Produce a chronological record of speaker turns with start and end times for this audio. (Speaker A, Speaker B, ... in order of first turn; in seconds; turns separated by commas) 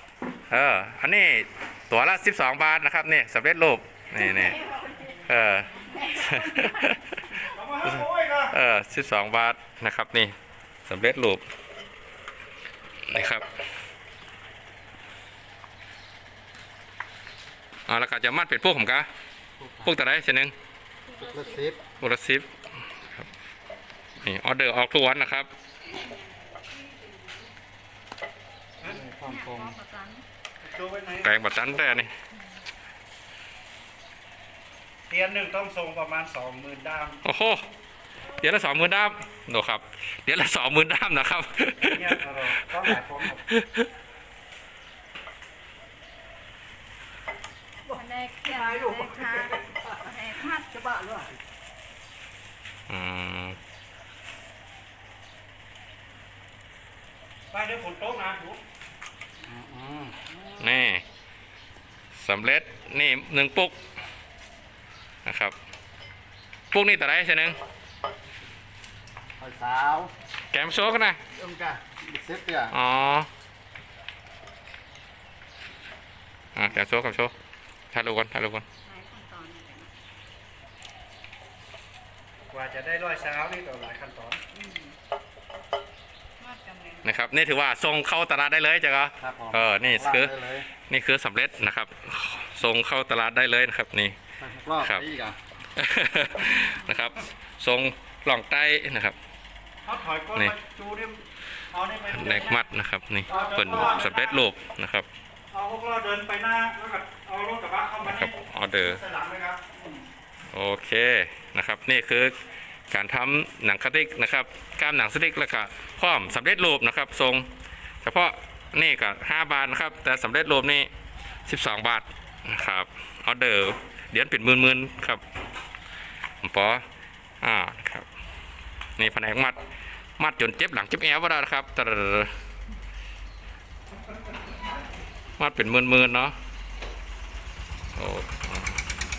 Speaker A: 0.5-7.2, Speaker B: 4.7-5.1, Speaker B: 6.0-6.7, Speaker C: 7.3-8.5, Speaker A: 8.5-10.3, Speaker A: 10.8-11.4, Speaker A: 13.1-13.4, Speaker A: 17.9-19.1, Speaker D: 19.6-19.9, Speaker A: 19.8-20.5, Speaker B: 21.1-21.7, Speaker D: 21.4-21.8, Speaker A: 21.8-22.5, Speaker A: 24.2-25.5, Speaker B: 26.8-27.3, Speaker B: 28.9-30.2, Speaker D: 28.9-29.6, Speaker C: 30.6-32.0, Speaker A: 31.2-32.1, Speaker C: 35.1-37.2, Speaker A: 37.2-37.6, Speaker A: 38.4-42.2, Speaker C: 41.8-43.4, Speaker A: 43.5-43.9, Speaker B: 47.9-50.8, Speaker C: 48.6-49.2, Speaker A: 52.9-53.6, Speaker C: 57.5-58.6, Speaker A: 60.5-61.0, Speaker A: 62.1-63.8, Speaker A: 65.2-65.5, Speaker A: 66.7-67.5, Speaker D: 69.4-70.1, Speaker A: 70.5-71.2, Speaker D: 71.4-72.7, Speaker A: 72.7-73.3, Speaker A: 76.5-77.3, Speaker A: 77.9-78.7, Speaker B: 78.8-79.9, Speaker C: 82.5-84.4, Speaker B: 84.5-84.9, Speaker B: 86.4-87.2, Speaker A: 87.0-94.2, Speaker D: 89.2-90.6, Speaker D: 94.4-95.3, Speaker A: 94.7-95.1, Speaker A: 95.8-99.2, Speaker C: 99.8-101.2, Speaker C: 101.7-102.7, Speaker A: 102.1-105.1, Speaker C: 103.3-104.4, Speaker C: 105.5-109.8, Speaker A: 108.0-109.0, Speaker A: 110.5-112.3, Speaker A: 112.9-117.5, Speaker A: 118.0-120.9, Speaker A: 121.5-125.2, Speaker A: 126.4-126.8, Speaker A: 127.4-128.1, Speaker A: 129.0-129.6, Speaker A: 130.2-132.3, Speaker A: 135.4-136.3, Speaker A: 137.9-138.8